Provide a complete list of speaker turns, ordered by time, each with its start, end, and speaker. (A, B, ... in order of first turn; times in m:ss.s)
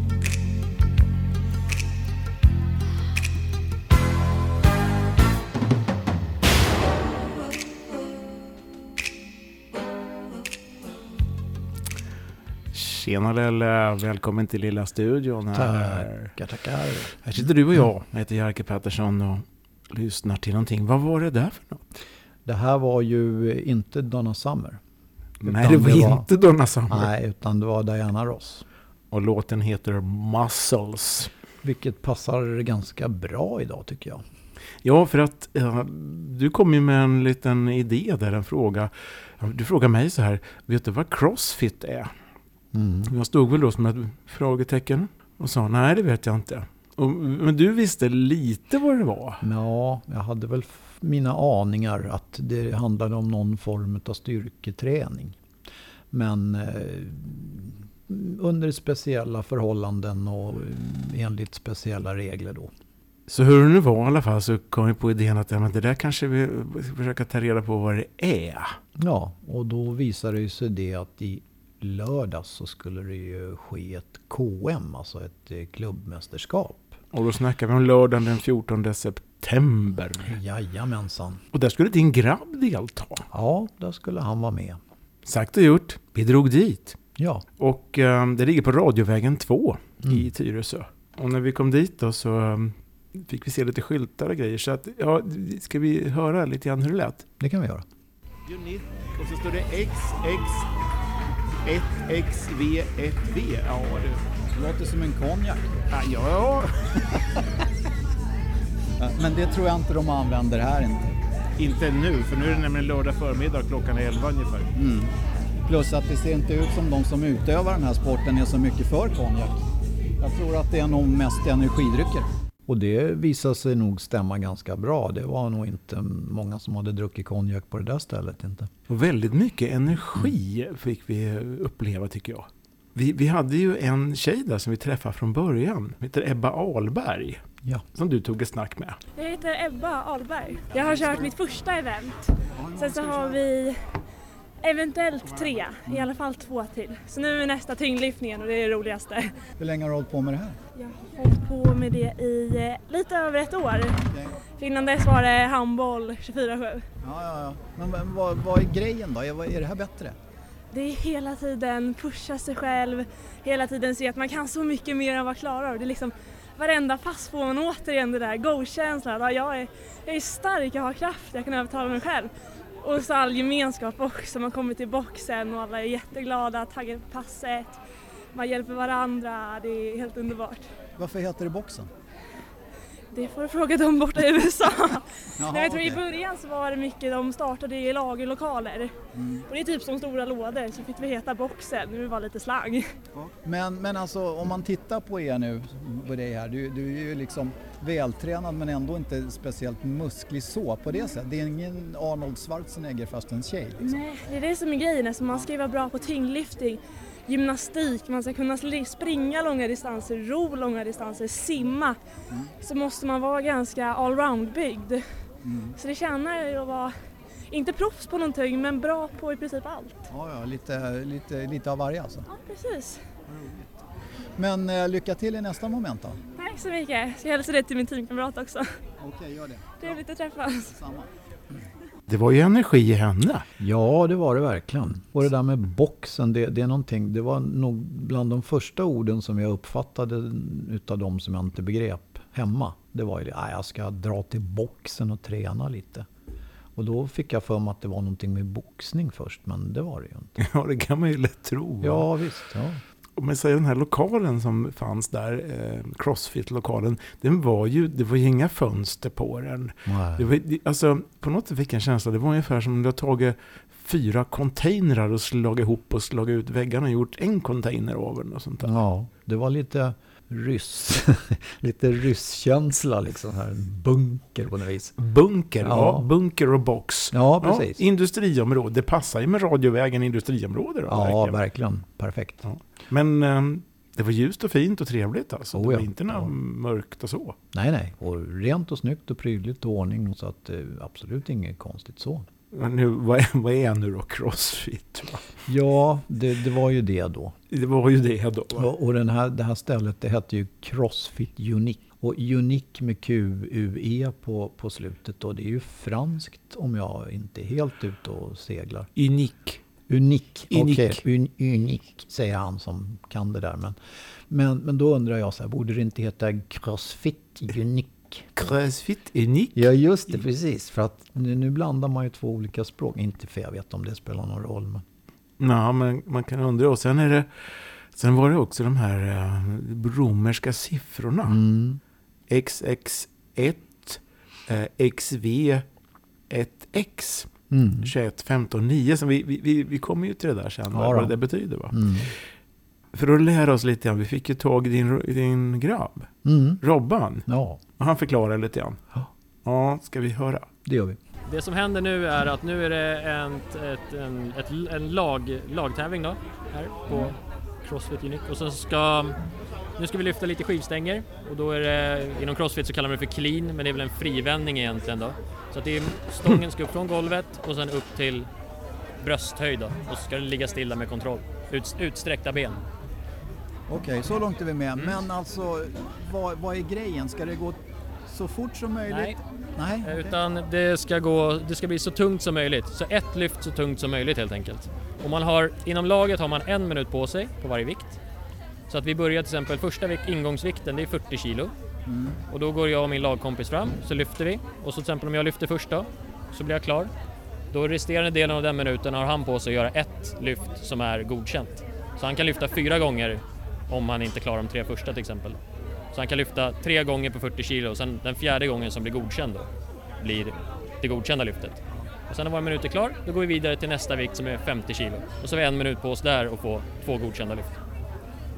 0:12.7-0:16.3 A
0:15.5-0:17.4 B
0:17.2-0:21.8 A
0:22.4-0:24.8 B
0:25.4-0:27.1 A
0:25.4-0:26.3 B
0:26.9-0:28.6 B
0:29.1-0:31.3 A
0:31.6-0:34.2 B
0:34.8-0:42.1 A
0:42.7-0:43.1 B
0:43.1-0:49.4 A
0:49.4-0:55.4 B
0:56.1-1:02.7 B
1:03.3-1:08.8 A
1:09.0-1:17.0 B
1:17.1-1:20.4 A
1:20.2-1:21.4 B
1:21.5-1:23.3 A
1:23.3-1:24.8 B
1:25.2-1:27.0 A
1:27.2-1:27.4 B
1:27.6-1:37.3 A
1:37.4-1:37.8 B
1:38.4-1:40.7 A
1:41.6-1:44.2 A
1:44.5-1:45.8 C
1:45.9-1:46.9 A
1:49.0-1:51.2 C
1:51.6-1:54.7 A
1:54.7-1:55.1 C
1:55.6-1:59.6 C
2:00.2-2:02.3 C
2:02.7-2:08.7 B
2:08.9-2:17.4 A
2:17.9-2:19.0 A
2:19.2-2:23.8 D
2:20.8-2:21.2 C
2:22.6-2:23.4 C
2:24.6-2:29.3 D
2:25.2-2:25.7 A
2:29.6-2:30.6 C
2:30.8-2:34.0 D
2:34.1-2:34.4 C
2:34.6-2:36.8 D
2:37.0-2:40.2 C
2:40.7-2:57.8 D
2:58.3-3:00.7 D
3:01.0-3:01.9 C
3:03.1-3:08.9 D
3:05.4-3:06.0 C
3:09.1-3:09.4 C
3:09.5-3:12.9 D
3:13.2-3:23.8 C
3:23.8-3:32.0 D
3:32.6-3:35.0 D
3:35.4-3:35.7 C
3:35.8-3:36.9 D
3:37.5-3:40.1 D
3:40.1-3:42.2 C
3:42.3-3:43.0 D
3:43.3-3:43.8 C
3:44.4-3:46.2 C
3:46.4-3:48.7 D
3:49.0-3:50.0 C
3:49.8-3:50.8 D
3:50.7-3:51.1 C
3:52.1-3:53.5 A
3:53.6-4:06.1 B
4:06.8-4:10.4 B
4:10.4-4:12.1 A
4:11.8-4:12.8 B
4:13.2-4:28.7 A
4:19.8-4:20.3 B
4:28.6-4:35.0 B
4:35.0-4:41.4 A
4:35.6-4:36.1 B
4:37.1-4:37.8 B
4:40.9-4:42.4 B
4:42.4-4:47.4 A
4:45.5-4:46.3 B
4:47.5-4:52.2 B
4:52.5-4:55.3 A
4:55.5-4:57.4 B
4:57.5-4:58.7 A
4:58.6-5:08.9 B
5:09.0-5:09.6 A
5:09.9-5:13.8 B
5:10.5-5:11.0 A
5:14.3-5:18.5 B
5:18.4-5:19.7 A
5:19.5-5:24.8 B
5:25.4-5:31.4 A
5:31.2-5:31.8 B
5:32.3-5:35.6 A
5:36.3-5:41.8 A
5:37.5-5:37.9 B
5:40.7-5:41.2 B
5:41.7-5:42.1 B
5:42.9-5:47.3 A
5:46.2-5:46.6 B
5:47.2-5:47.6 B
5:47.8-5:48.8 A
5:49.4-5:50.5 A
5:50.6-5:51.0 B
5:51.3-5:59.2 E
5:59.8-6:08.3 E
6:09.0-6:12.6 E
6:13.7-6:20.2 C
6:18.9-6:19.2 E
6:19.8-6:28.0 E
6:28.7-6:31.5 E
6:31.8-6:32.2 C
6:32.3-6:36.9 E
6:37.5-6:45.4 E
6:45.9-6:49.5 E
6:50.0-6:57.5 E